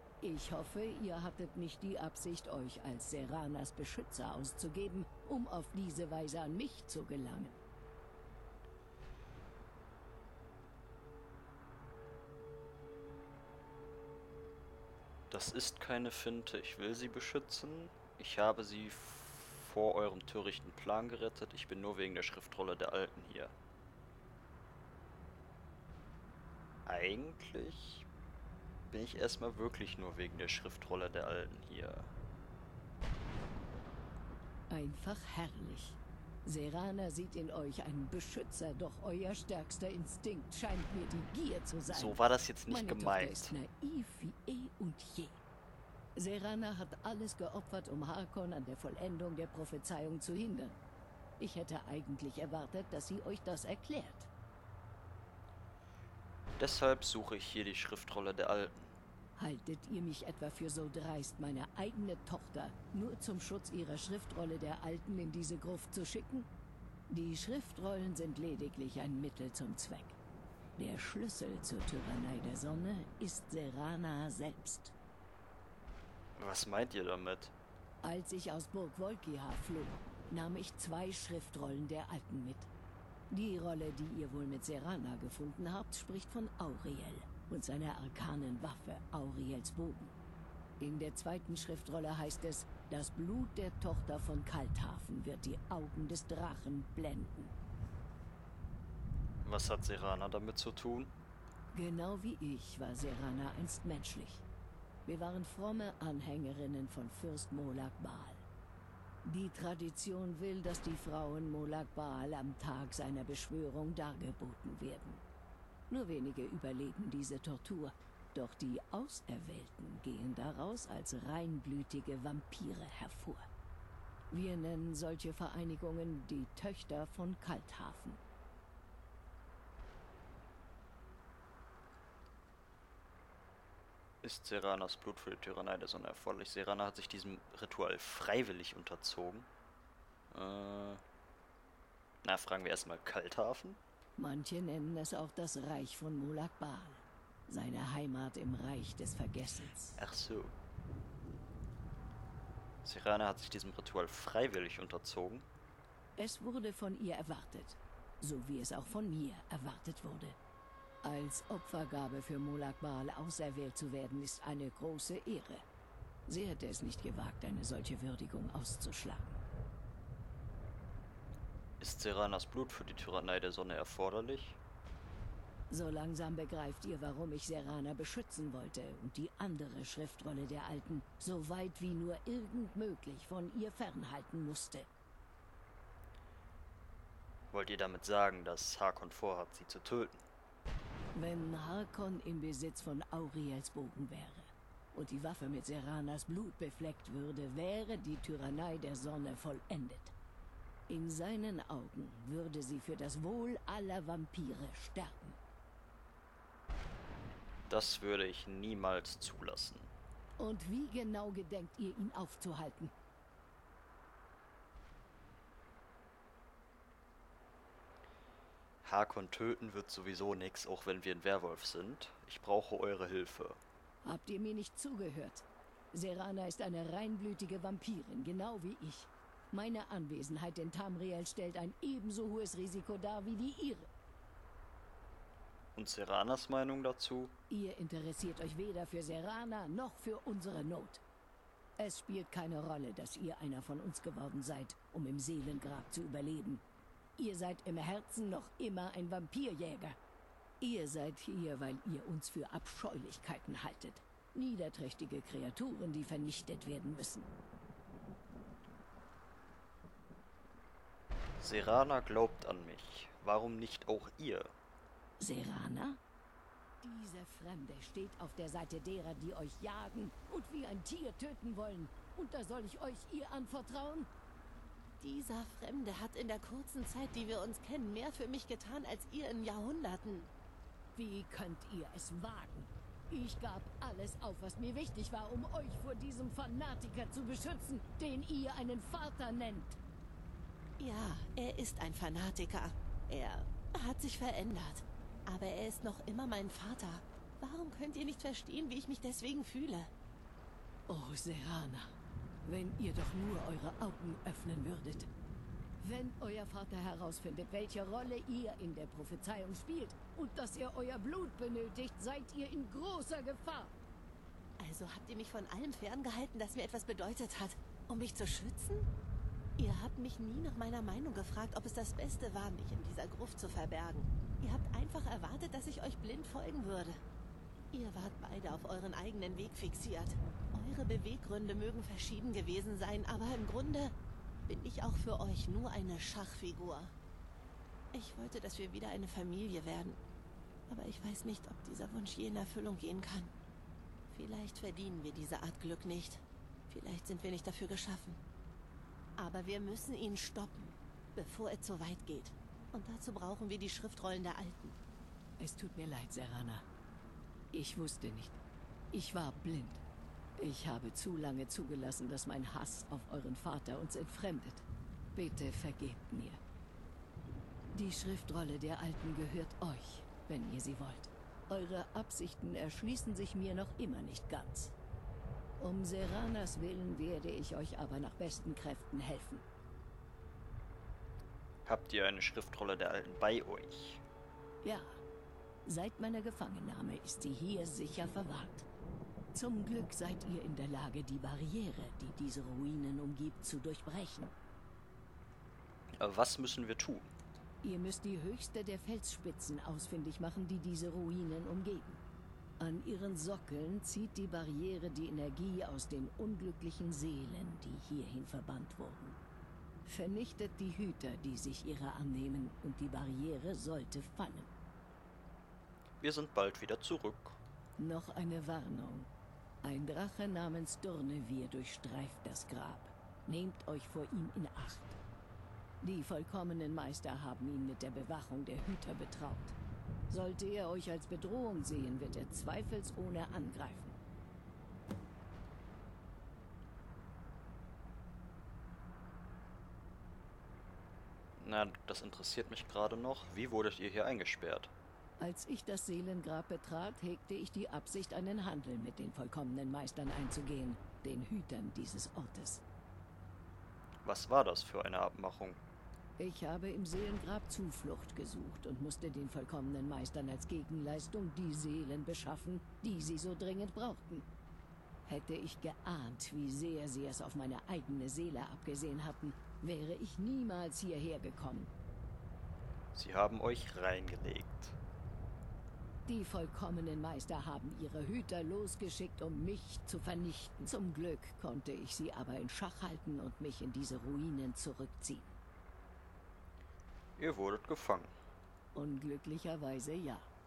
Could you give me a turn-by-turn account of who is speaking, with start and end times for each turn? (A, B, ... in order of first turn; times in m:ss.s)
0:00.2-0:07.6 A
0:15.3-0:23.5 B
0:26.8-0:28.1 B
0:28.9-0:32.1 B
0:34.7-0:45.4 A
0:41.9-0:43.5 B
0:46.2-0:50.8 A
0:51.4-0:54.3 A
0:56.6-0:58.9 B
0:59.4-1:06.5 A
1:07.1-1:10.2 A
1:10.8-1:14.9 A
1:16.4-1:17.5 B
1:18.0-1:22.7 A
1:23.3-1:30.1 A
1:30.8-1:37.5 A
1:39.4-1:41.1 B
1:41.7-1:44.4 A
1:45.0-1:48.4 A
1:49.2-1:55.2 A
1:55.9-2:03.4 A
2:04.3-2:08.2 A
2:14.2-2:19.5 B
2:20.3-2:21.0 B
2:22.2-2:23.8 B
2:24.2-2:30.0 A
2:30.0-2:30.5 B
2:32.8-2:35.4 B
2:36.2-2:40.4 A
2:41.0-2:45.6 A
2:46.3-2:49.4 A
2:51.8-2:54.6 B
2:55.7-3:04.9 A
3:07.5-3:10.2 B
3:11.1-3:20.1 A
3:20.9-3:25.4 A
3:27.7-3:29.9 B
3:30.4-3:32.9 A
3:38.8-3:43.6 B
3:44.0-3:53.9 A
3:55.8-3:57.3 B
3:57.5-4:01.0 A
4:01.8-4:06.6 A
4:07.2-4:10.0 A
4:10.6-4:17.3 A
4:21.4-4:24.5 B
4:25.2-4:26.0 A
4:26.8-4:34.1 A
4:35.0-4:40.3 C
4:40.9-4:49.8 A
4:50.8-4:59.9 C
5:00.9-5:01.9 A
5:02.4-5:05.1 A
5:05.8-5:13.7 A
5:14.6-5:18.9 C
5:19.6-5:27.0 C
5:27.7-5:33.9 C
5:34.5-5:36.9 C
5:37.9-5:40.0 C
5:40.7-5:43.3 C
5:44.1-5:48.2 C
5:49.2-5:54.8 C
5:55.4-5:56.6 A
5:57.5-5:58.4 A
5:58.9-5:59.8 A
6:00.4-6:06.4 A
6:07.7-6:14.7 A
6:15.6-6:19.4 A
6:21.6-6:24.0 B
6:24.6-6:25.0 A
6:25.6-6:28.7 A
6:29.3-6:34.3 A
6:36.0-6:37.1 B
6:37.6-6:42.0 A
6:42.6-6:49.2 A
6:49.8-6:54.5 A
6:56.0-6:57.4 B
6:57.8-6:59.1 A
6:59.6-7:05.0 A
7:05.8-7:09.6 A
7:10.1-7:14.0 A
7:21.4-7:24.7 B
7:25.2-7:32.6 A
7:34.0-7:35.6 B
7:36.2-7:44.2 A
7:45.0-7:51.7 A
7:52.9-7:54.8 B
7:56.0-8:05.3 A
8:07.2-8:08.1 B
8:08.7-8:10.3 A